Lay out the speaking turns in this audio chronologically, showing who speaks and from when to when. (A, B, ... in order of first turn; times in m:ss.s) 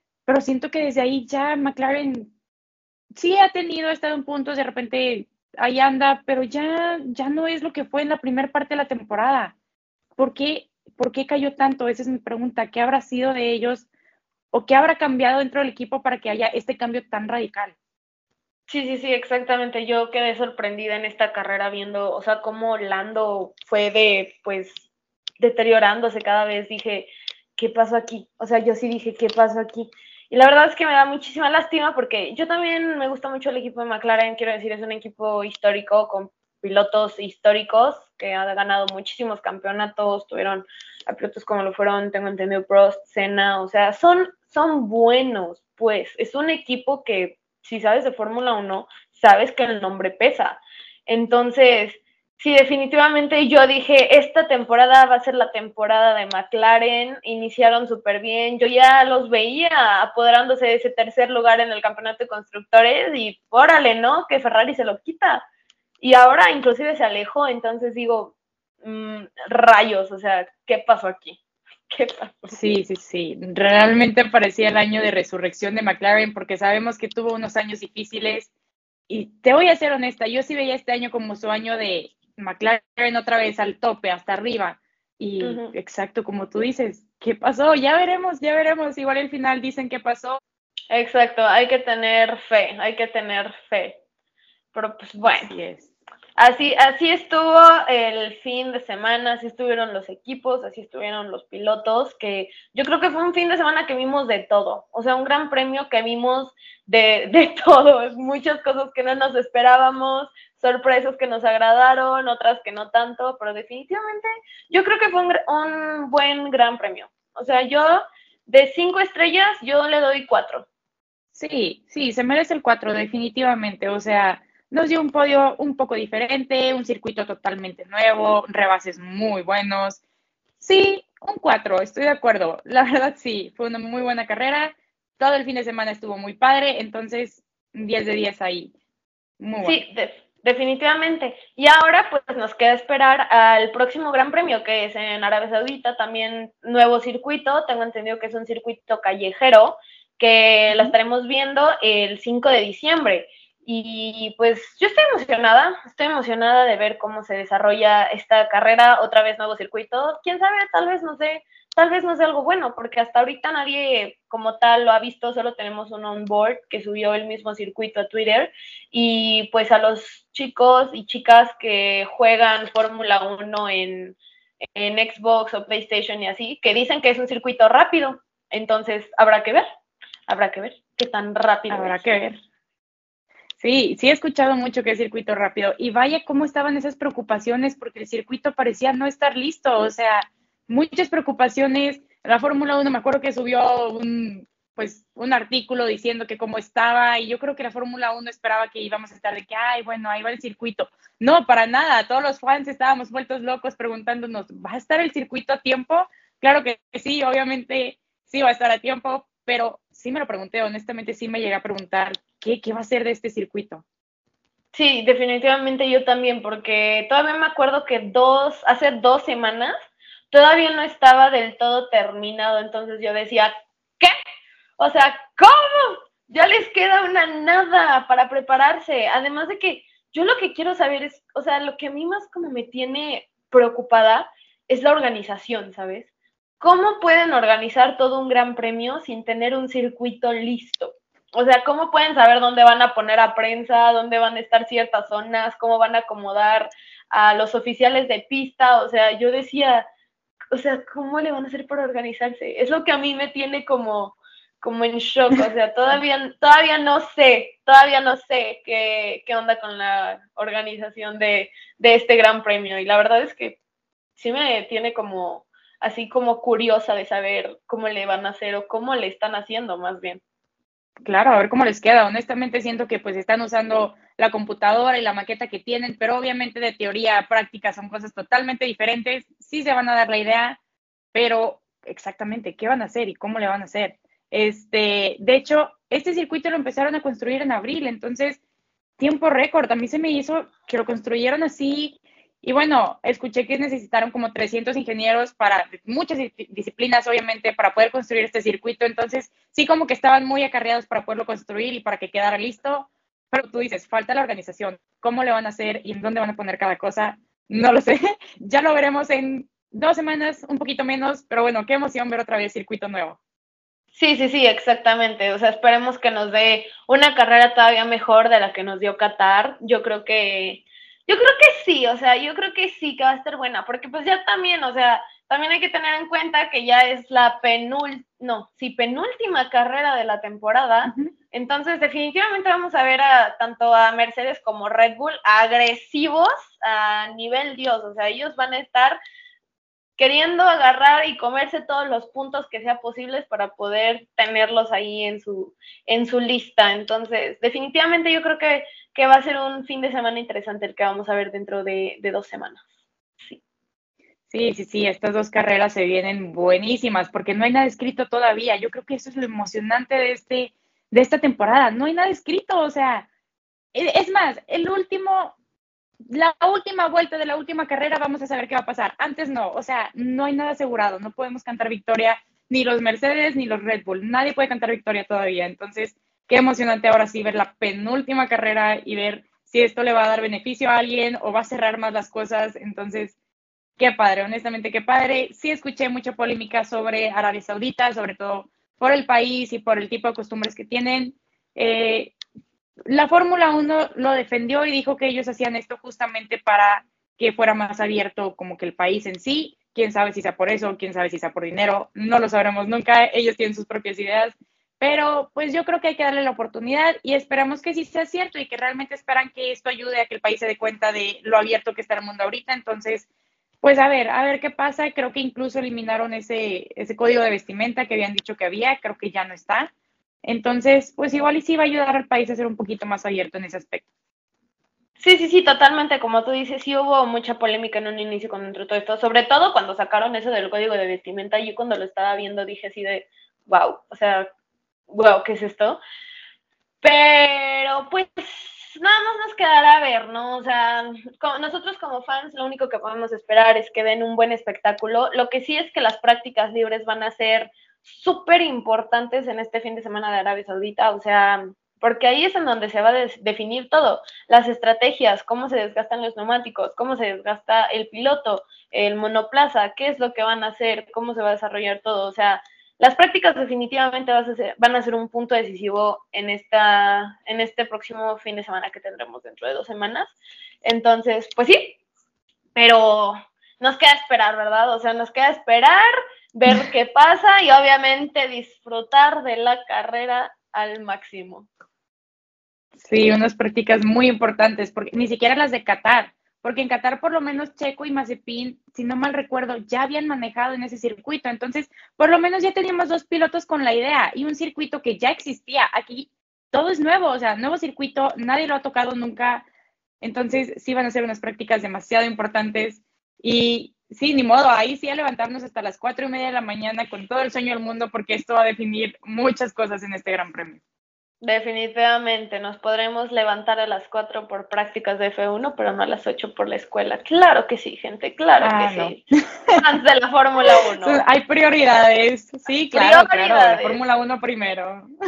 0:00.2-0:02.3 A
0:03.1-0:09.5 A
0:10.2-0:13.8 A
0:14.5-0:17.8 A
0:18.7-0:24.9 B
0:25.4-1:05.4 B
1:06.0-1:11.4 B
1:11.9-1:12.6 B
1:12.5-1:18.5 A
1:19.1-1:30.4 A
1:25.4-1:25.7 B
1:30.9-1:34.0 B
1:34.7-1:35.5 B
1:35.4-1:35.9 A
1:36.4-2:00.7 B
2:01.3-2:10.0 A
2:10.6-2:18.7 A
2:19.4-2:19.8 A
2:19.6-2:54.2 B
2:54.7-2:59.6 B
3:00.3-3:02.2 B
3:01.7-3:02.4 A
3:03.6-3:33.8 A
3:34.7-3:39.7 B
3:40.3-3:44.1 B
3:44.8-4:09.8 B
4:10.5-4:23.6 B
4:24.2-4:30.2 B
4:31.0-4:40.6 A
4:41.1-4:48.4 A
4:49.0-5:13.2 A
5:13.9-5:39.0 B
5:30.9-5:31.1 A
5:40.0-5:52.6 B
5:54.3-6:03.1 A
6:03.7-6:05.4 A
6:06.1-6:23.2 A
6:23.8-6:32.1 A
6:32.9-6:53.1 A
6:53.6-6:59.7 A
7:00.2-7:03.9 A
7:05.0-7:14.3 B
7:14.9-7:15.8 B
7:16.8-7:51.8 B
7:52.5-8:01.5 B
8:02.8-8:19.4 A
8:20.0-8:30.6 A
8:31.2-8:39.0 B
8:38.4-8:39.6 A
8:39.5-8:41.0 B
8:40.8-8:44.9 A
8:42.7-8:43.8 B